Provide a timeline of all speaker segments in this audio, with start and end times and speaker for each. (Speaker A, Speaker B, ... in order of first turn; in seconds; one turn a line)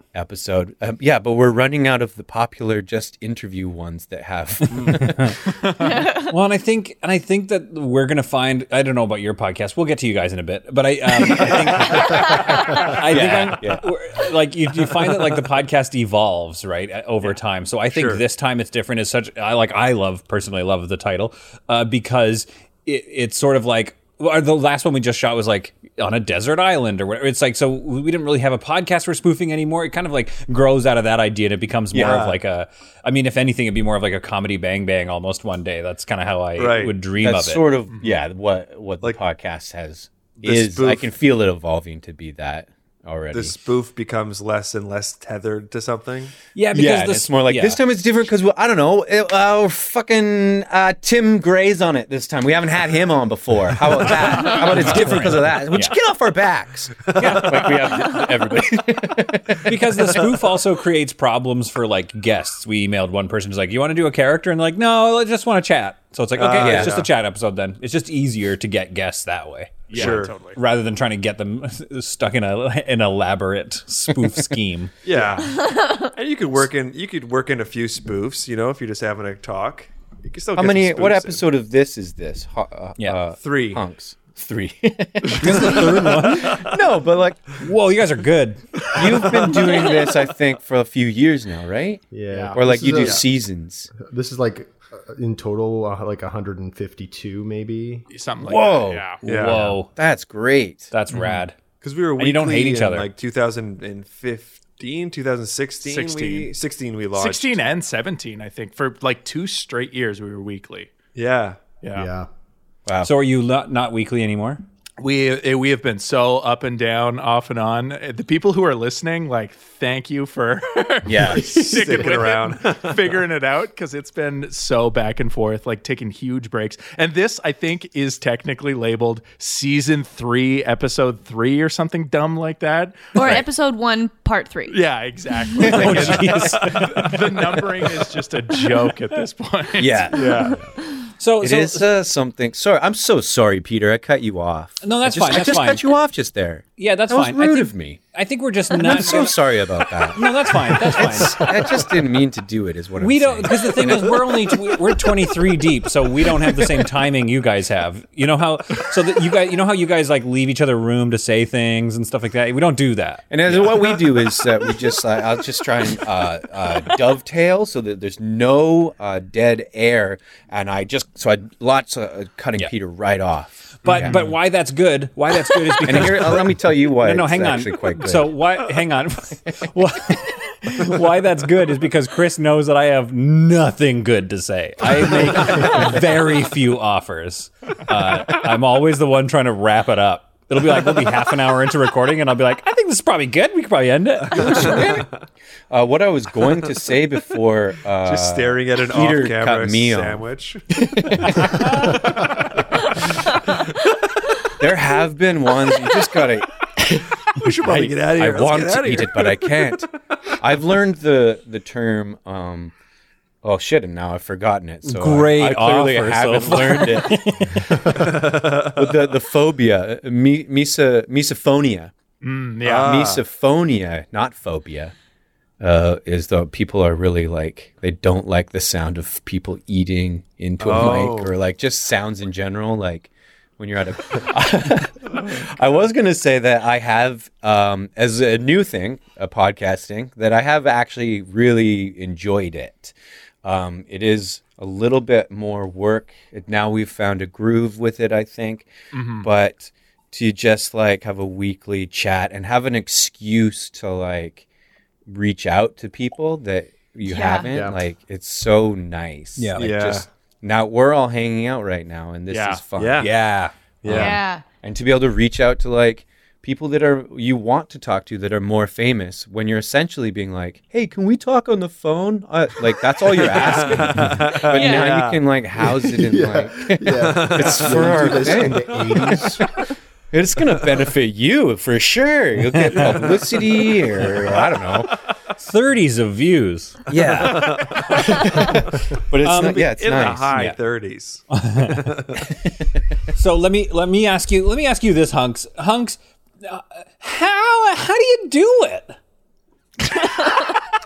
Speaker A: 0.1-5.4
Speaker B: 4.8-5.2
Speaker C: 5.8-6.3
Speaker B: 6.0-37.7
Speaker A: 12.8-13.9
Speaker D: 17.9-18.2
Speaker D: 31.9-32.4
Speaker D: 36.6-37.0
Speaker A: 37.2-43.5
Speaker D: 40.4-41.1
Speaker D: 43.3-46.3
Speaker B: 46.5-47.8
Speaker A: 46.7-60.2
Speaker B: 54.1-56.0
Speaker D: 57.1-57.6
Speaker B: 57.2-58.0
Speaker B: 59.6-74.9
Speaker D: 66.3-67.1
Speaker A: 66.6-67.0
Speaker E: 69.9-70.6
Speaker D: 69.9-70.3
Speaker D: 75.0-81.4
Speaker C: 75.6-76.0
Speaker A: 80.5-87.6
Speaker D: 83.4-83.8
Speaker B: 85.4-86.6
Speaker B: 87.6-88.7
Speaker A: 88.9-93.9
Speaker F: 92.1-93.2
Speaker E: 92.3-92.6
Speaker D: 93.0-93.2
Speaker F: 93.9-98.0
Speaker E: 98.1-99.2
Speaker A: 98.4-100.9
Speaker B: 99.2-99.9
Speaker D: 99.2-99.6
Speaker B: 100.9-101.5
Speaker E: 101.1-101.4
Speaker D: 101.8-107.7
Speaker B: 102.2-103.1
Speaker E: 105.8-106.5
Speaker E: 107.1-110.9
Speaker D: 111.1-111.6
Speaker E: 111.8-112.1
Speaker F: 111.9-112.3
Speaker B: 113.0-114.6
Speaker E: 115.0-133.2
Speaker A: 121.0-122.1
Speaker D: 121.3-123.2
Speaker C: 133.1-134.8
Speaker A: 133.2-133.4
Speaker E: 134.7-140.6
Speaker B: 135.6-137.2
Speaker A: 135.8-136.4
Speaker A: 139.8-140.5
Speaker B: 141.2-141.8
Speaker A: 141.4-148.0
Speaker B: 144.8-145.9
Speaker B: 146.8-151.6
Speaker A: 148.7-154.7
Speaker B: 153.0-163.9
Speaker A: 163.3-174.1
Speaker B: 173.8-195.0
Speaker E: 173.9-174.3
Speaker A: 175.8-178.4
Speaker D: 194.3-194.9
Speaker A: 194.3-195.0
Speaker A: 195.7-201.4
Speaker D: 198.0-200.8
Speaker A: 204.6-212.7
Speaker D: 207.3-209.9
Speaker A: 213.4-217.4
Speaker B: 214.8-217.7
Speaker D: 218.0-218.8
Speaker A: 218.6-221.9
Speaker E: 222.2-222.9
Speaker D: 222.6-223.2
Speaker A: 222.7-224.9
Speaker A: 225.6-254.4
Speaker D: 230.6-231.3
Speaker E: 248.9-249.3
Speaker A: 255.1-263.1
Speaker C: 257.1-257.5
Speaker F: 257.5-257.8
Speaker B: 259.4-259.7
Speaker D: 259.6-260.1
Speaker E: 262.3-262.6
Speaker D: 262.8-263.1
Speaker B: 263.0-264.1
Speaker D: 263.8-264.2
Speaker A: 263.8-284.9
Speaker C: 263.9-264.4
Speaker D: 273.0-275.2
Speaker C: 274.5-275.0
Speaker F: 275.9-279.5
Speaker D: 276.9-279.2
Speaker D: 282.8-283.4
Speaker B: 285.4-286.8
Speaker A: 286.9-290.5
Speaker D: 287.0-292.2
Speaker B: 289.2-290.6
Speaker B: 291.3-291.7
Speaker B: 293.1-298.9
Speaker E: 299.9-300.6